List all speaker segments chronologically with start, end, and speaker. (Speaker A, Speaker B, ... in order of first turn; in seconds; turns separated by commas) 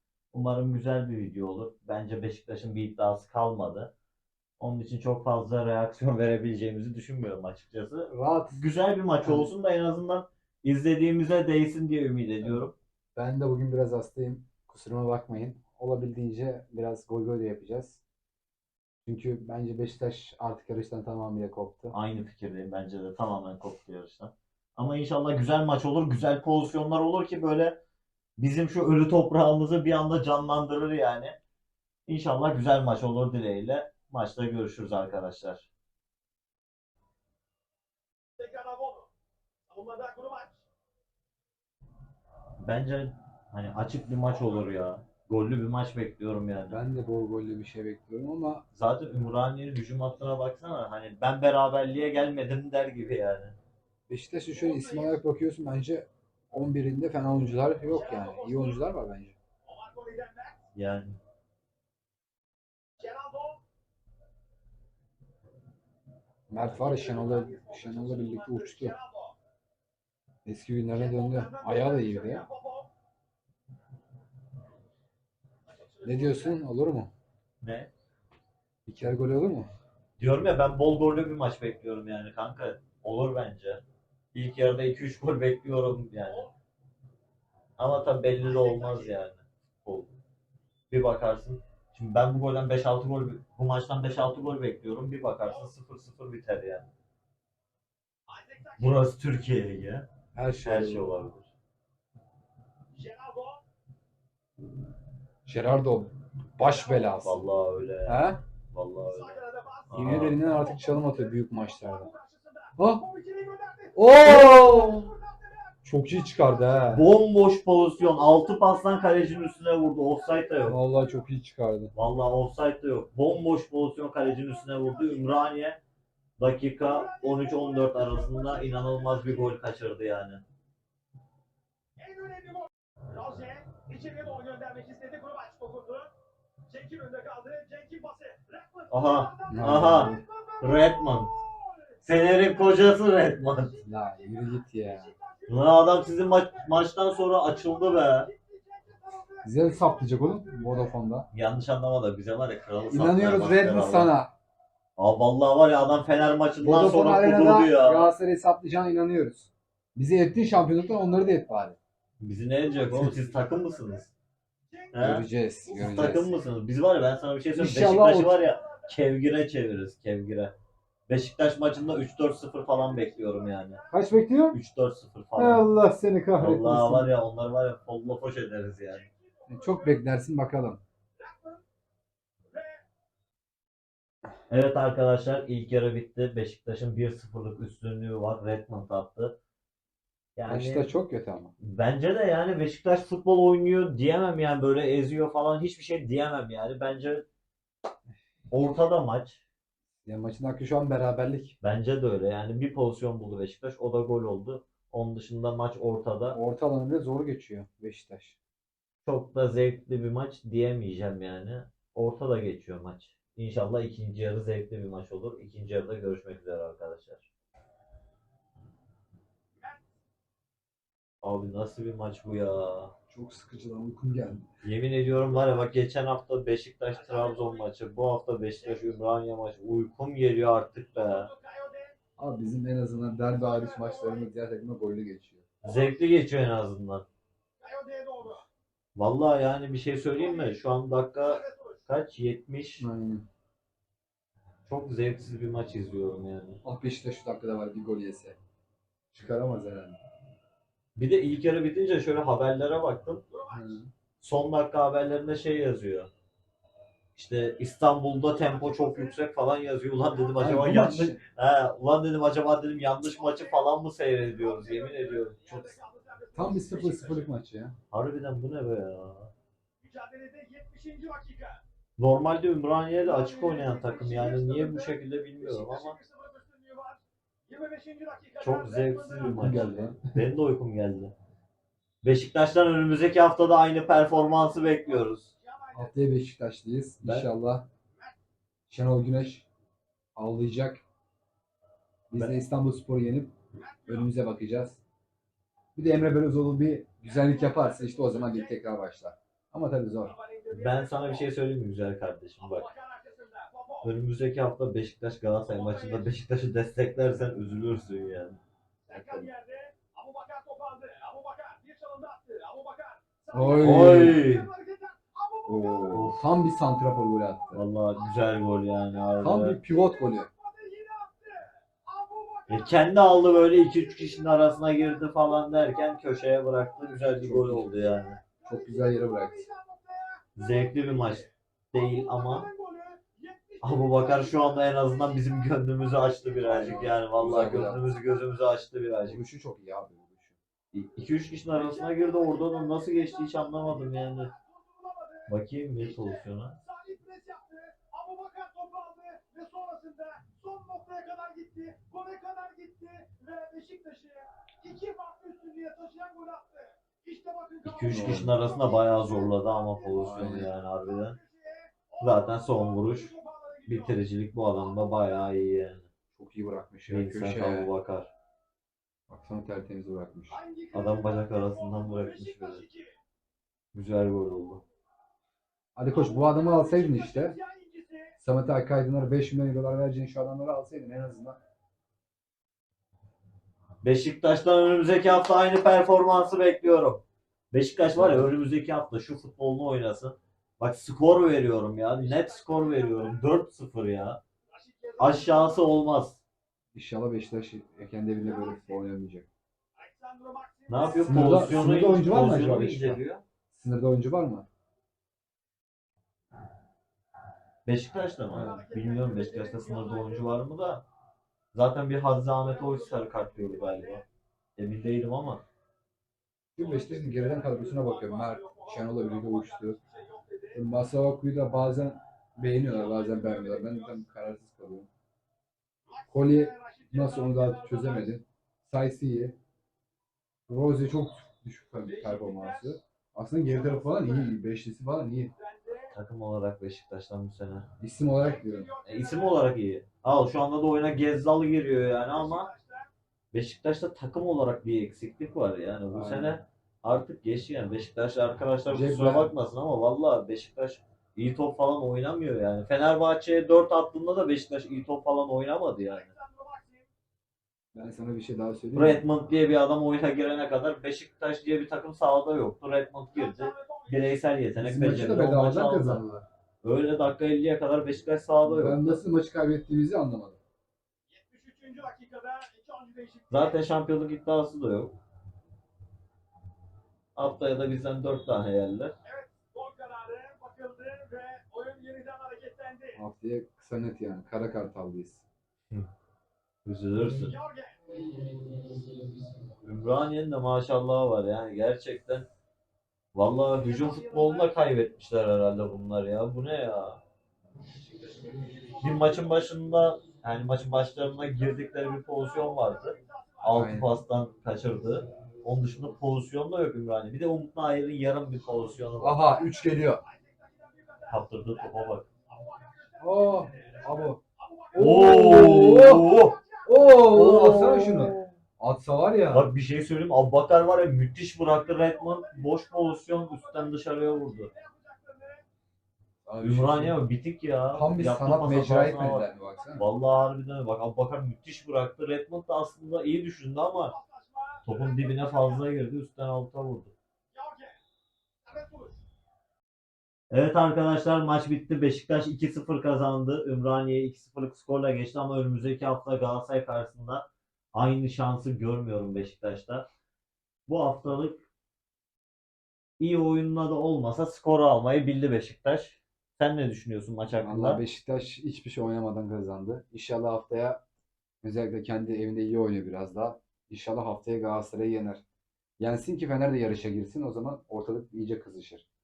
Speaker A: 0.3-3.9, Speaker A: 4.6-12.8, Speaker B: 8.1-8.6, Speaker B: 9.2-9.5, Speaker B: 13.2-18.0, Speaker B: 19.1-21.9, Speaker A: 21.9-27.8, Speaker A: 28.4-31.4, Speaker A: 32.1-35.7, Speaker C: 38.4-39.1, Speaker C: 39.7-40.6, Speaker A: 42.6-46.8, Speaker B: 46.7-48.6, Speaker A: 48.7-53.5, Speaker B: 54.1-59.4, Speaker C: 54.5-55.2, Speaker C: 57.9-58.9, Speaker C: 59.6-60.6, Speaker A: 60.8-61.2, Speaker C: 63.0-63.6, Speaker B: 66.5-68.9, Speaker C: 66.7-69.3, Speaker B: 70.5-72.5, Speaker C: 70.9-72.9, Speaker C: 75.7-76.6, Speaker B: 76.0-77.1, Speaker A: 77.6-77.9, Speaker B: 78.9-79.7, Speaker A: 80.2-83.8, Speaker A: 84.3-86.5, Speaker C: 86.3-86.5, Speaker A: 87.8-90.1, Speaker C: 88.4-89.2, Speaker A: 90.9-96.9, Speaker C: 98.3-99.0, Speaker A: 98.8-101.5, Speaker B: 100.3-101.1, Speaker C: 103.0-103.6, Speaker B: 105.5-107.4, Speaker A: 107.1-110.4, Speaker B: 108.1-108.4, Speaker C: 109.0-115.8, Speaker B: 109.9-112.1, Speaker B: 112.8-113.0, Speaker B: 114.0-115.1, Speaker B: 115.8-117.0, Speaker C: 116.3-116.8, Speaker A: 116.9-120.8, Speaker C: 117.7-121.0, Speaker B: 120.7-121.9, Speaker A: 122.0-125.8, Speaker C: 124.2-125.5, Speaker A: 126.4-130.4, Speaker C: 126.8-129.6, Speaker C: 132.0-136.1, Speaker C: 136.7-141.9, Speaker A: 138.9-141.3, Speaker B: 139.5-140.2, Speaker A: 142.0-143.8, Speaker C: 143.7-146.8, Speaker B: 143.8-145.1, Speaker A: 145.5-148.3, Speaker C: 147.5-151.0, Speaker B: 149.4-151.3, Speaker A: 151.3-154.1, Speaker B: 152.9-154.3, Speaker A: 155.0-158.1, Speaker B: 156.6-161.8, Speaker A: 162.2-164.1, Speaker C: 163.0-164.0, Speaker C: 164.7-165.1, Speaker A: 164.9-170.5, Speaker B: 165.0-166.3, Speaker C: 165.7-166.4, Speaker B: 167.6-168.4, Speaker C: 168.5-168.9, Speaker A: 171.1-173.8, Speaker C: 172.7-174.0, Speaker B: 173.9-174.6, Speaker A: 174.5-175.7, Speaker B: 175.4-177.1, Speaker A: 176.4-179.1, Speaker C: 178.9-180.0, Speaker B: 179.5-180.8, Speaker C: 181.2-181.7, Speaker C: 182.5-182.8, Speaker A: 184.5-189.4, Speaker A: 190.4-190.9, Speaker B: 190.5-191.5, Speaker A: 191.6-197.3, Speaker A: 198.5-199.4, Speaker B: 200.1-201.6, Speaker A: 201.6-206.4, Speaker B: 206.3-208.4, Speaker A: 209.1-217.3, Speaker A: 221.2-222.9, Speaker B: 223.1-224.5, Speaker A: 224.6-231.3, Speaker C: 226.9-227.7, Speaker C: 228.6-228.9, Speaker C: 231.0-232.0, Speaker B: 232.2-235.5, Speaker C: 233.3-234.3, Speaker A: 235.6-237.1, Speaker C: 235.7-236.0, Speaker C: 237.6-238.4, Speaker A: 239.0-242.9, Speaker C: 240.2-240.6, Speaker C: 241.2-241.8, Speaker B: 242.8-243.2, Speaker A: 244.7-246.6, Speaker B: 246.6-248.4, Speaker B: 249.1-250.0, Speaker A: 251.0-253.2, Speaker C: 253.3-253.8, Speaker B: 253.5-253.9, Speaker A: 254.2-256.1, Speaker A: 257.1-265.4, Speaker C: 258.3-259.2, Speaker C: 260.1-260.6, Speaker B: 260.4-261.2, Speaker C: 263.0-267.3, Speaker B: 265.5-265.8, Speaker B: 266.3-267.8, Speaker A: 267.9-269.3, Speaker C: 269.8-271.6, Speaker A: 272.0-276.0, Speaker C: 272.9-279.9, Speaker A: 278.4-281.1, Speaker B: 279.3-280.2, Speaker A: 282.0-285.3, Speaker C: 283.8-285.9, Speaker B: 285.7-287.7, Speaker A: 287.0-287.3, Speaker B: 288.7-289.5, Speaker B: 290.2-290.8, Speaker B: 292.1-293.4, Speaker C: 293.6-294.1, Speaker B: 293.9-294.8, Speaker B: 295.8-300.1, Speaker C: 297.1-298.6, Speaker C: 300.0-301.3, Speaker A: 300.5-302.7, Speaker C: 302.4-303.9, Speaker A: 303.8-308.4, Speaker C: 305.5-306.1, Speaker C: 308.9-316.1, Speaker B: 308.9-309.2, Speaker B: 313.3-314.2, Speaker A: 313.5-314.5, Speaker B: 315.5-317.6, Speaker A: 315.9-316.3, Speaker A: 317.5-319.6, Speaker C: 317.9-326.0, Speaker B: 319.2-320.3, Speaker A: 322.5-328.2, Speaker B: 327.2-327.8, Speaker C: 327.8-336.8, Speaker B: 328.4-329.5, Speaker A: 330.4-332.5, Speaker A: 333.6-339.2, Speaker B: 336.4-337.9, Speaker B: 339.1-340.4, Speaker A: 340.7-344.3, Speaker C: 341.5-364.0, Speaker A: 345.3-346.6, Speaker A: 357.6-361.2, Speaker B: 357.9-358.3, Speaker B: 359.9-360.5, Speaker A: 362.0-363.1, Speaker A: 363.7-365.9, Speaker C: 364.6-365.2, Speaker B: 366.1-367.7, Speaker A: 366.9-368.1, Speaker B: 369.1-370.4, Speaker C: 370.3-372.9, Speaker A: 370.7-372.6, Speaker A: 373.7-374.6, Speaker B: 375.8-377.4, Speaker C: 375.9-378.2, Speaker B: 378.2-381.4, Speaker A: 383.8-394.2, Speaker B: 387.9-388.3, Speaker C: 392.0-393.3, Speaker C: 394.5-395.6, Speaker A: 395.0-396.2, Speaker B: 396.7-399.3, Speaker C: 398.2-398.8, Speaker C: 399.8-401.7, Speaker A: 400.7-403.2, Speaker B: 400.9-404.5, Speaker A: 407.7-410.8, Speaker B: 408.3-408.6, Speaker C: 408.3-410.3, Speaker A: 411.5-414.0, Speaker C: 412.4-414.1, Speaker A: 414.6-415.4, Speaker B: 416.6-419.8, Speaker C: 416.6-420.6, Speaker B: 420.5-424.9, Speaker C: 422.6-424.0, Speaker C: 425.9-428.1, Speaker B: 426.1-429.4, Speaker B: 430.5-435.3, Speaker C: 431.9-432.8, Speaker C: 433.4-434.4, Speaker C: 435.4-435.9, Speaker A: 435.9-437.7, Speaker B: 437.8-438.7, Speaker C: 438.2-439.4, Speaker A: 438.8-442.5, Speaker C: 442.1-442.9, Speaker A: 443.3-456.1, Speaker B: 445.9-446.4, Speaker B: 448.7-449.3, Speaker C: 455.8-456.9, Speaker B: 457.7-459.0, Speaker A: 458.7-466.0, Speaker C: 463.1-464.2, Speaker B: 464.6-466.3, Speaker A: 466.6-469.0, Speaker B: 468.4-470.4, Speaker C: 471.1-473.6, Speaker A: 473.3-475.0, Speaker A: 477.1-478.9, Speaker C: 479.0-483.0, Speaker B: 482.9-485.2, Speaker A: 486.7-487.4, Speaker C: 487.0-487.8, Speaker A: 489.6-492.3, Speaker A: 493.1-497.0, Speaker C: 493.6-494.5, Speaker A: 498.2-509.2, Speaker C: 498.7-499.4, Speaker C: 501.2-503.6, Speaker B: 503.5-503.9, Speaker B: 509.0-510.0, Speaker C: 509.4-516.8, Speaker A: 511.1-512.1, Speaker B: 513.0-514.2, Speaker B: 514.7-519.5, Speaker A: 514.8-518.4, Speaker A: 519.3-524.5, Speaker C: 521.5-525.4, Speaker B: 526.2-527.0, Speaker A: 526.4-534.0, Speaker B: 527.7-529.9, Speaker C: 533.8-535.6, Speaker A: 534.6-536.9, Speaker C: 537.3-537.8, Speaker C: 538.5-539.0, Speaker A: 540.3-549.9, Speaker A: 550.7-551.4, Speaker A: 553.0-557.8, Speaker B: 557.4-560.8, Speaker B: 561.4-565.2, Speaker B: 565.8-568.9